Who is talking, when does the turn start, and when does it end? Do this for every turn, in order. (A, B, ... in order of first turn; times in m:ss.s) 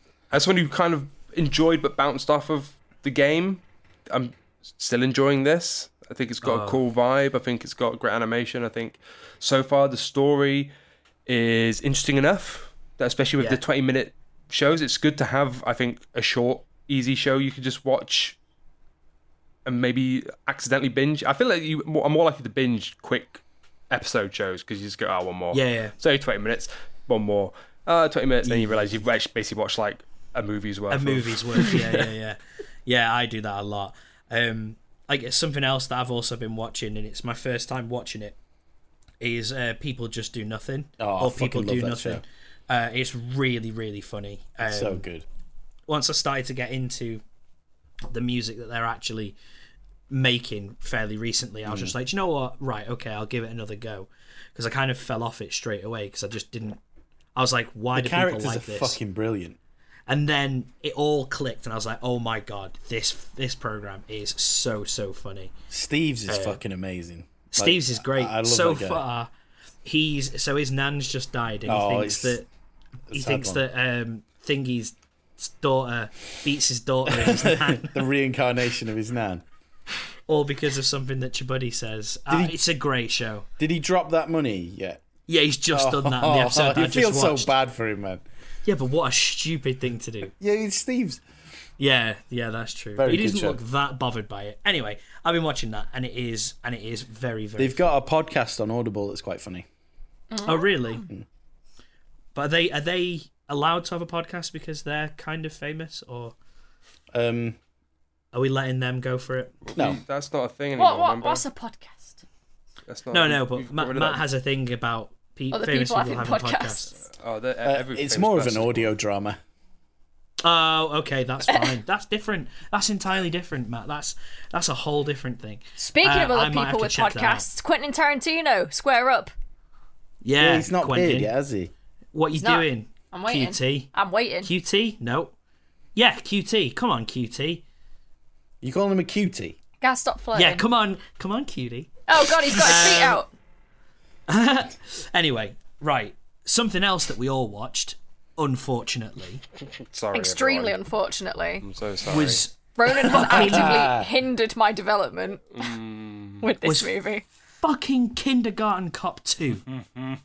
0:00.3-0:10.7 A
0:06.4-0:06.8 B
0:11.3-0:18.4 A
0:19.6-0:32.1 A
0:25.5-0:26.0 B
0:28.4-0:28.9 B
0:30.9-0:38.4 B
0:39.2-0:45.0 B
0:41.0-0:42.2 C
0:44.6-0:45.2 C
0:45.9-0:47.2 B
0:48.1-0:49.4 B
0:50.1-0:56.8 B
0:51.7-0:51.9 C
0:57.4-0:59.0 B
0:58.0-0:59.6 C
1:00.1-1:05.5 B
1:05.7-1:09.0 C
1:06.3-1:06.6 B
1:07.5-1:09.3 B
1:09.8-1:12.5 B
1:11.7-1:12.4 C
1:13.1-1:13.6 C
1:13.1-1:18.1 B
1:17.1-1:19.4 C
1:20.3-1:23.5 B
1:22.3-1:22.6 C
1:23.6-1:25.0 C
1:25.3-1:27.5 B
1:25.7-1:28.2 C
1:28.6-1:30.3 B
1:30.4-1:31.2 C
1:31.8-1:37.8 B
1:33.0-1:33.6 C
1:37.6-1:39.7 C
1:40.3-1:41.0 D
1:40.5-1:41.0 B
1:42.4-1:46.3 B
1:47.1-1:47.6 C
1:48.3-1:49.6 B
1:49.6-1:51.4 A
1:49.8-1:50.0 C
1:50.8-1:52.2 D
1:52.9-1:54.2 A
1:53.1-1:56.9 B
1:55.5-1:56.9 D
1:57.1-1:58.9 A
1:57.6-1:59.4 C
2:00.4-2:07.4 B
2:05.8-2:09.3 D
2:10.2-2:11.3 B
2:10.4-2:11.7 C
2:12.1-2:15.3 B
2:12.4-2:14.5 D
2:16.0-2:17.6 B
2:18.6-2:19.6 C
2:19.8-2:20.6 D
2:20.4-2:23.2 B
2:22.1-2:23.3 D
2:24.3-2:29.4 B
2:29.7-2:30.8 A
2:30.1-2:31.6 D
2:31.6-2:32.4 A
2:32.0-2:33.8 B
2:32.8-2:35.7 D
2:33.2-2:34.1 C
2:35.6-2:36.4 A
2:36.4-2:37.2 D
2:36.6-2:36.9 B
2:37.6-2:39.7 B